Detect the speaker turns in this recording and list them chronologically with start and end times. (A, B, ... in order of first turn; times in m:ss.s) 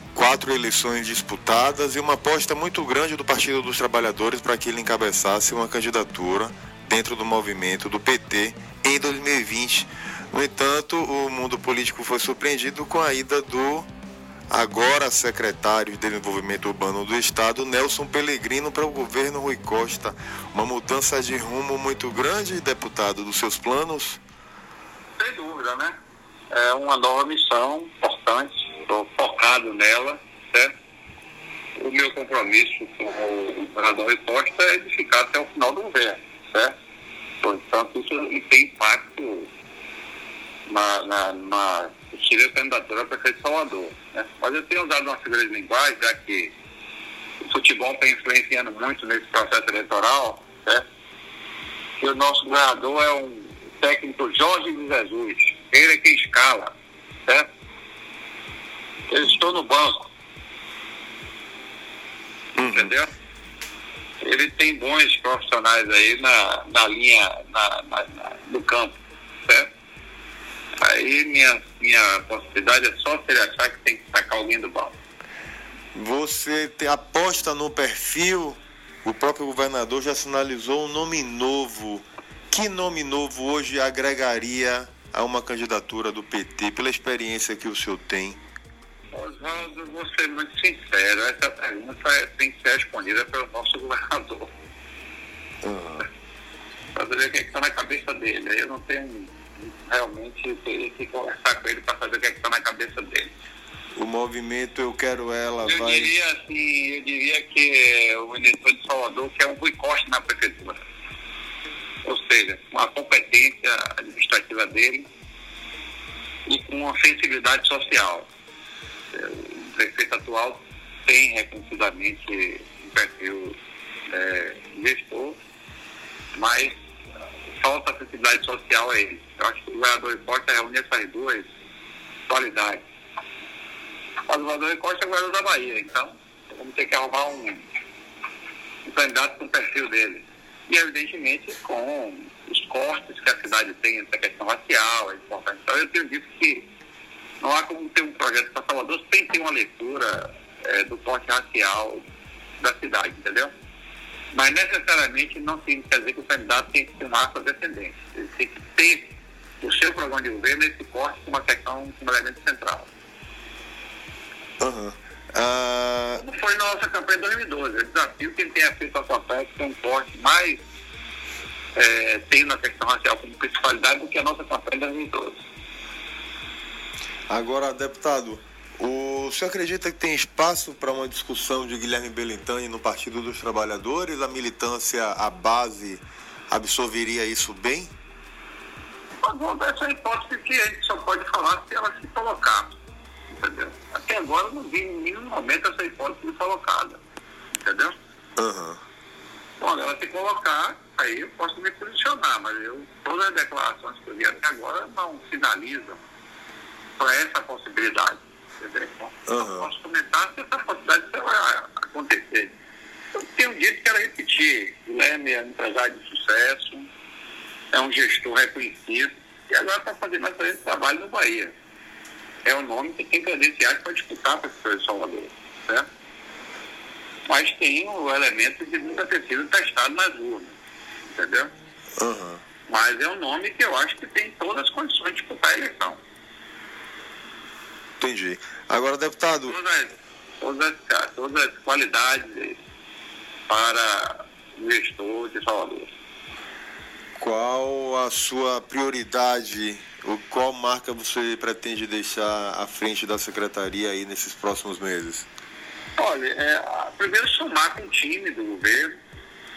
0:00.1-0:13.9 A
0:14.5-0:24.2 A
0:25.2-0:26.0 B
0:26.5-0:30.7 B
0:31.8-0:36.8 B
0:37.4-0:39.5 B
0:40.7-0:46.5 B
0:47.5-0:50.8 B
0:52.0-0:56.7 B
0:59.1-1:00.1 B
1:02.6-1:02.9 A
1:02.7-1:03.1 B
1:04.2-1:09.7 B
1:10.8-1:15.0 B
1:15.9-1:28.4 A
1:29.1-1:34.5 B
1:35.6-1:36.1 A
1:37.0-1:43.3 B
1:44.0-1:46.1 A
1:45.6-1:50.8 B
1:52.0-1:55.1 B
1:56.5-1:58.3 B
1:59.1-2:03.6 B
2:04.1-2:05.4 B
2:06.3-2:06.7 B
2:07.6-2:11.5 B
2:12.3-2:12.8 B
2:14.3-2:17.6 B
2:18.9-2:26.7 B
2:27.4-2:32.0 B
2:32.6-2:33.5 B
2:34.3-2:42.9 B
2:44.6-2:46.2 A
2:46.2-2:50.6 B
2:51.8-2:55.4 B
2:57.3-3:07.9 A
3:09.2-3:12.8 B
3:13.3-3:17.0 B
3:17.5-3:17.9 B
3:18.4-3:18.8 A
3:19.6-3:26.0 B
3:27.0-3:32.5 B
3:29.3-3:29.7 A
3:33.1-3:36.9 B
3:37.7-3:41.5 B
3:42.4-3:45.9 B
3:47.3-3:51.5 B
3:52.0-3:52.4 A
3:52.7-3:56.0 B
3:58.0-3:59.6 A
3:59.4-4:02.6 B
4:03.5-4:05.9 B
4:07.2-4:15.3 A
4:16.0-4:19.0 B